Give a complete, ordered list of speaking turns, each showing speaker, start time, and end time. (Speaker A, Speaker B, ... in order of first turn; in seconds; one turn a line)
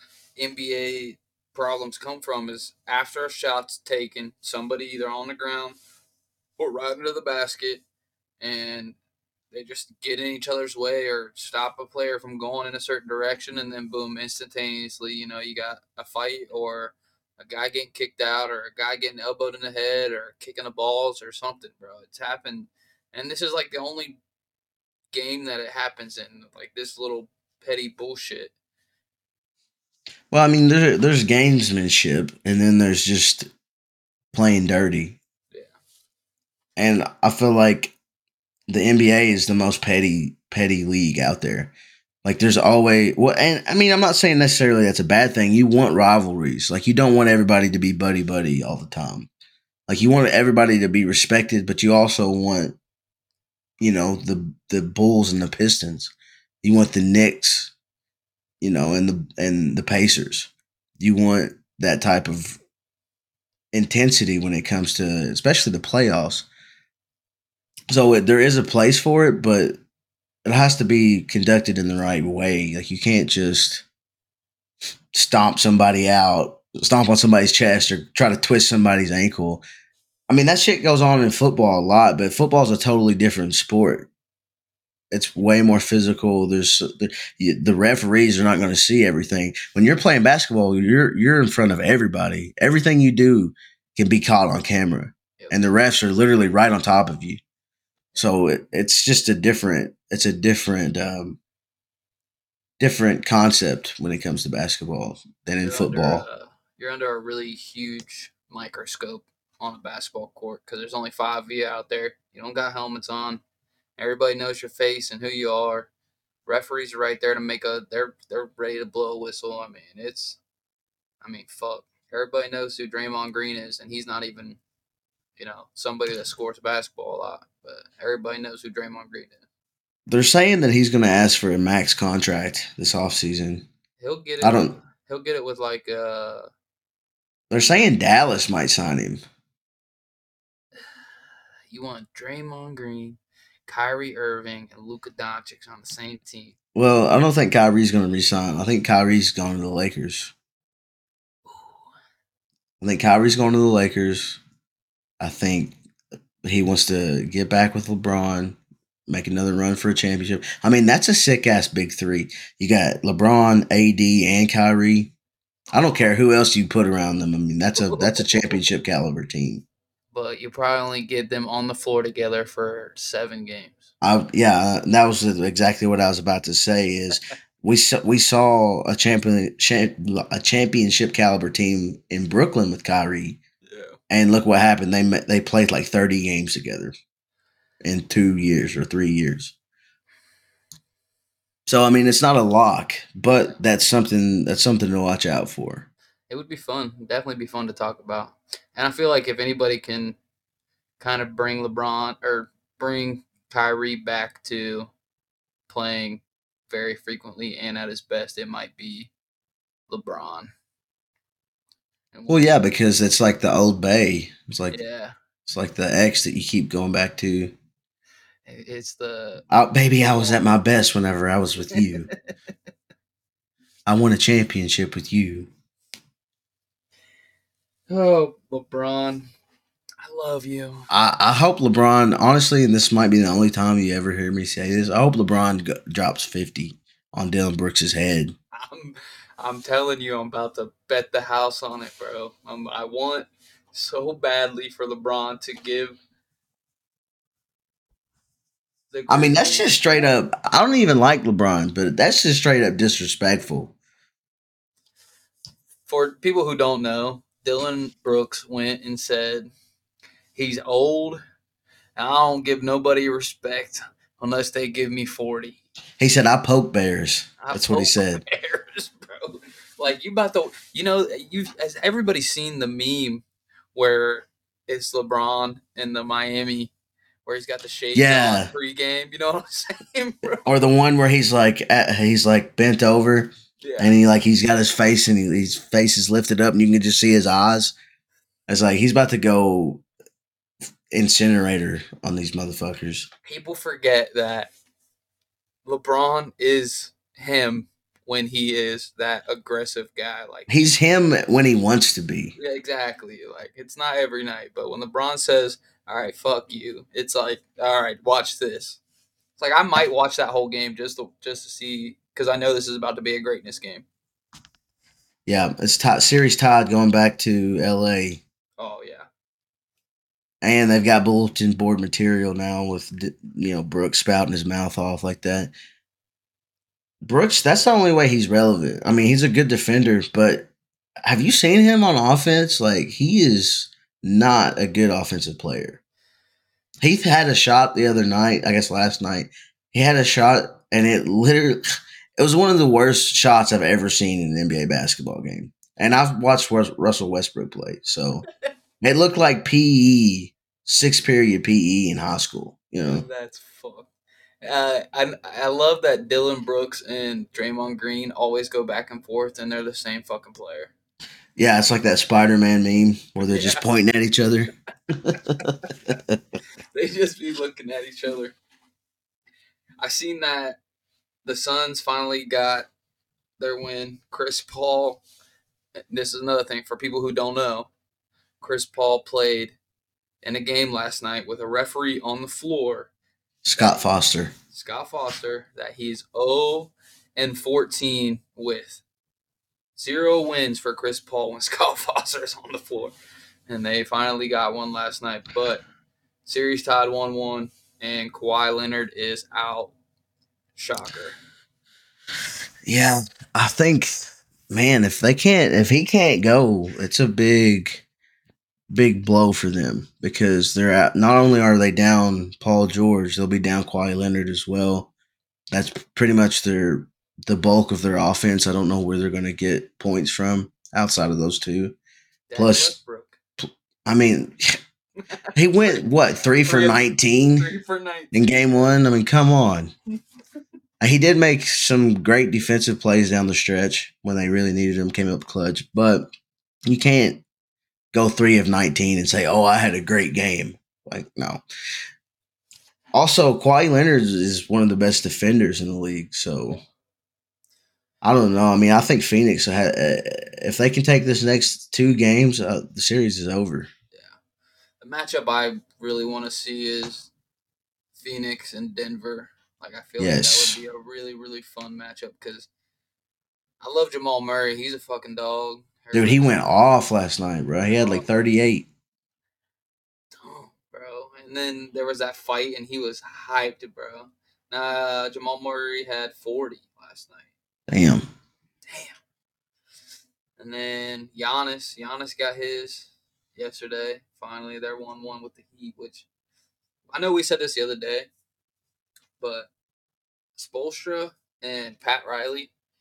Speaker A: 0.4-5.8
Speaker A: 6.6-7.8
Speaker A: 8.4-9.0
Speaker A: 9.5-24.2
Speaker A: 25.1-28.5
Speaker B: 30.3-33.5
Speaker B: 34.3-35.2
Speaker B: 36.8-38.0
Speaker B: 38.7-41.7
Speaker B: 42.2-49.3
Speaker B: 49.9-52.8
Speaker B: 53.8-57.7
Speaker B: 58.6-62.6
Speaker B: 63.7-66.5
Speaker B: 67.9-69.8
Speaker B: 70.5-73.8
Speaker B: 75.1-79.6
Speaker B: 80.3-84.1
Speaker B: 85.1-97.4
Speaker A: 95.4-95.7
Speaker B: 98.2-101.4
Speaker B: 102.8-106.2
Speaker A: 105.6-113.4
Speaker A: 114.0-115.9
Speaker A: 116.5-120.4
Speaker A: 121.2-124.6
Speaker A: 125.4-129.4
Speaker B: 130.1-133.7
Speaker A: 134.0-136.5
Speaker B: 134.4-134.8
Speaker B: 137.5-139.2
Speaker A: 141.7-146.6
Speaker B: 146.8-150.3
Speaker A: 151.5-151.8
Speaker B: 152.8-154.4
Speaker B: 155.2-155.8
Speaker B: 156.4-165.1
Speaker B: 165.7-169.6
Speaker A: 167.8-168.6
Speaker A: 170.1-173.9
Speaker B: 174.0-183.4
Speaker B: 184.1-186.9
Speaker B: 187.8-189.5
Speaker B: 191.7-195.9
Speaker A: 196.3-200.2
Speaker A: 201.0-204.9
Speaker A: 205.7-209.1
Speaker A: 209.9-210.5
Speaker A: 212.1-212.5
Speaker B: 212.3-214.8
Speaker A: 214.7-215.2
Speaker B: 215.5-217.6
Speaker A: 218.5-219.4
Speaker B: 219.5-222.1
Speaker A: 220.1-220.4
Speaker A: 221.7-222.1
Speaker B: 223.9-225.5
Speaker A: 227.9-229.3
Speaker A: 230.0-230.9
Speaker B: 230.9-238.4
Speaker A: 238.5-246.0
Speaker A: 248.9-250.1
Speaker B: 249.1-253.8
Speaker A: 255.9-259.5
Speaker A: 260.3-261.2
Speaker A: 262.0-265.6
Speaker B: 266.0-268.2
Speaker A: 267.4-276.7
Speaker A: 277.2-280.6
Speaker B: 277.9-278.5
Speaker B: 280.4-287.8
Speaker A: 283.6-283.9
Speaker B: 288.5-289.8
Speaker B: 290.9-293.1
Speaker A: 293.3-294.5
Speaker A: 295.6-300.6
Speaker B: 300.5-302.4
Speaker A: 302.4-308.8
Speaker A: 309.4-313.9
Speaker B: 315.3-318.2
Speaker A: 318.6-319.1
Speaker B: 320.4-325.5
Speaker B: 327.0-330.5
Speaker B: 331.1-335.8
Speaker B: 336.8-341.6
Speaker B: 342.2-348.3
Speaker B: 348.8-353.1
Speaker A: 352.8-353.9
Speaker A: 354.4-360.7
Speaker B: 361.4-366.2
Speaker A: 363.2-363.6
Speaker A: 366.7-368.4
Speaker A: 369.8-370.6
Speaker A: 371.2-372.7
Speaker A: 373.4-375.0
Speaker A: 375.9-377.7
Speaker A: 378.4-379.6
Speaker A: 380.2-382.9
Speaker B: 383.4-384.3
Speaker A: 384.5-388.8
Speaker A: 389.8-392.9
Speaker A: 393.5-395.6
Speaker A: 396.2-399.7
Speaker A: 400.6-401.2
Speaker B: 402.6-407.9
Speaker B: 408.7-414.9
Speaker B: 415.5-421.8
Speaker A: 422.3-423.2
Speaker B: 422.4-422.8
Speaker B: 423.4-424.6
Speaker B: 425.4-427.5
Speaker A: 426.4-428.7
Speaker B: 428.1-429.7
Speaker B: 430.8-436.1
Speaker B: 436.7-437.2
Speaker B: 437.9-441.4
Speaker B: 442.9-446.6
Speaker B: 448.0-453.7
Speaker A: 454.8-457.1
Speaker A: 458.0-462.5
Speaker B: 460.0-460.6
Speaker A: 463.6-466.4
Speaker B: 465.9-468.7
Speaker A: 467.8-468.1
Speaker A: 470.2-477.3
Speaker B: 477.7-478.1
Speaker A: 478.7-479.0
Speaker A: 480.4-486.1
Speaker A: 486.9-488.1
Speaker A: 489.2-489.5
Speaker A: 490.4-492.5